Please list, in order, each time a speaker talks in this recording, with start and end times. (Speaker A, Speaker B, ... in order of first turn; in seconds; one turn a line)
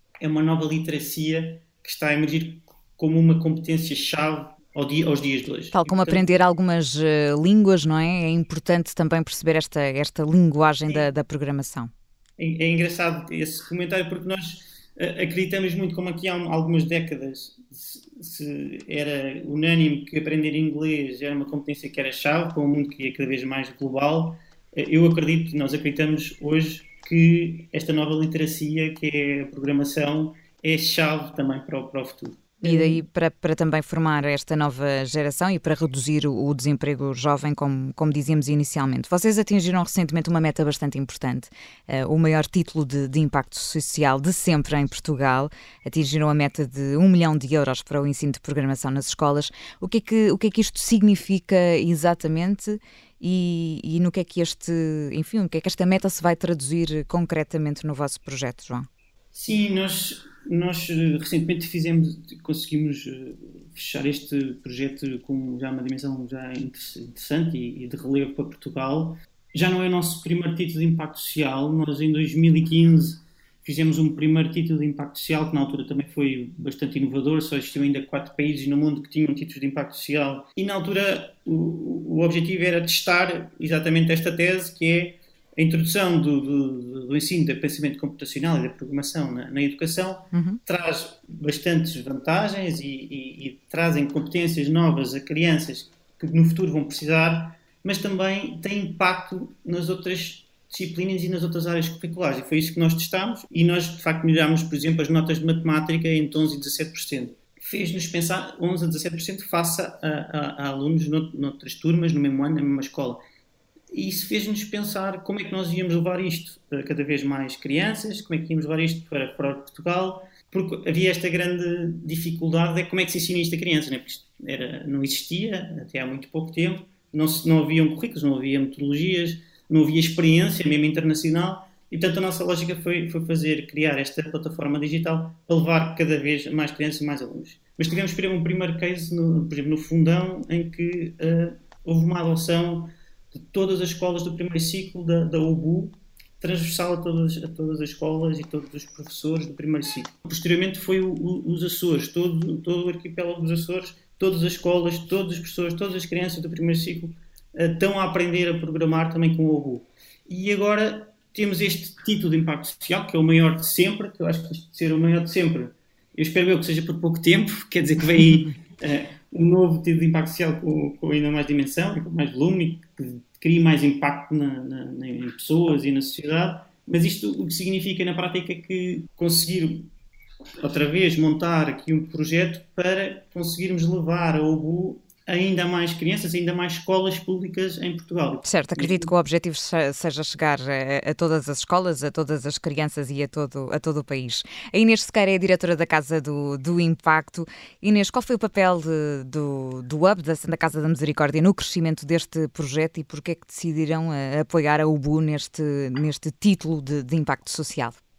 Speaker A: 0.2-6.2
Speaker B: 5.7-11.9
Speaker A: 12.4-33.0
Speaker B: 32.6-58.9
Speaker A: 59.3-113.2
Speaker B: 90.3-90.6
Speaker A: 113.9-142.9
Speaker A: 143.5-179.9
Speaker A: 180.6-189.1
Speaker B: 188.4-208.0